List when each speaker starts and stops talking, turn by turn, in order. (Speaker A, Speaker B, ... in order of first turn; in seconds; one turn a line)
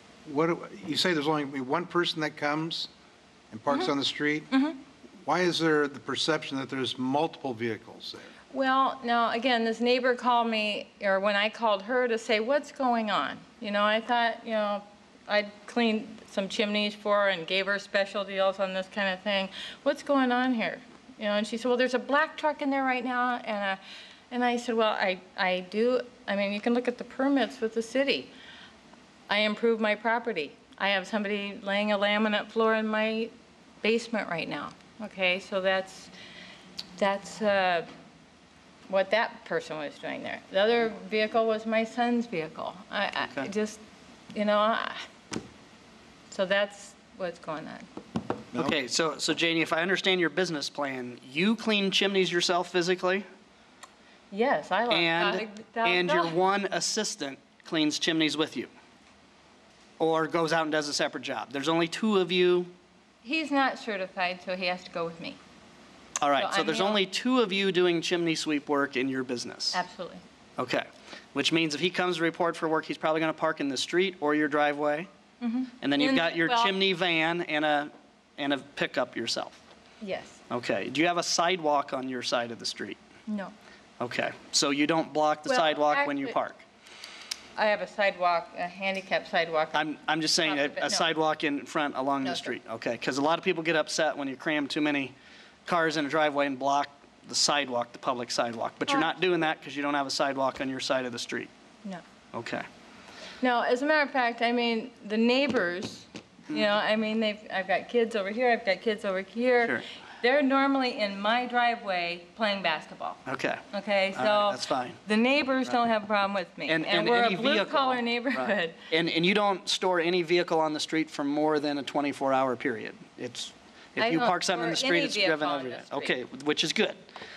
Speaker A: 0.2-2.9
Speaker A: 3.5-4.5
Speaker B: 4.5-4.8
Speaker A: 5.2-8.3
Speaker B: 8.5-23.8
Speaker B: 24.3-28.3
Speaker B: 29.3-36.1
Speaker B: 37.0-37.9
Speaker B: 38.9-43.8
Speaker C: 43.2-43.5
Speaker B: 44.3-45.0
Speaker B: 46.3-47.9
Speaker C: 48.5-53.2
Speaker B: 54.3-56.4
Speaker C: 54.9-58.7
Speaker C: 60.0-62.7
Speaker B: 63.2-65.4
Speaker C: 66.2-69.8
Speaker B: 66.3-67.0
Speaker B: 69.7-70.2
Speaker C: 70.6-75.1
Speaker B: 75.4-76.7
Speaker C: 75.8-79.6
Speaker B: 80.0-80.4
Speaker C: 80.5-83.0
Speaker B: 83.3-83.5
Speaker C: 84.0-86.6
Speaker B: 85.5-86.4
Speaker B: 87.5-91.1
Speaker C: 89.7-95.1
Speaker B: 92.2-92.5
Speaker C: 95.7-101.5
Speaker B: 98.9-99.1
Speaker C: 102.3-102.7
Speaker B: 103.4-118.8
Speaker C: 113.2-113.6
Speaker C: 114.1-115.0
Speaker C: 116.7-127.0
Speaker B: 124.0-126.1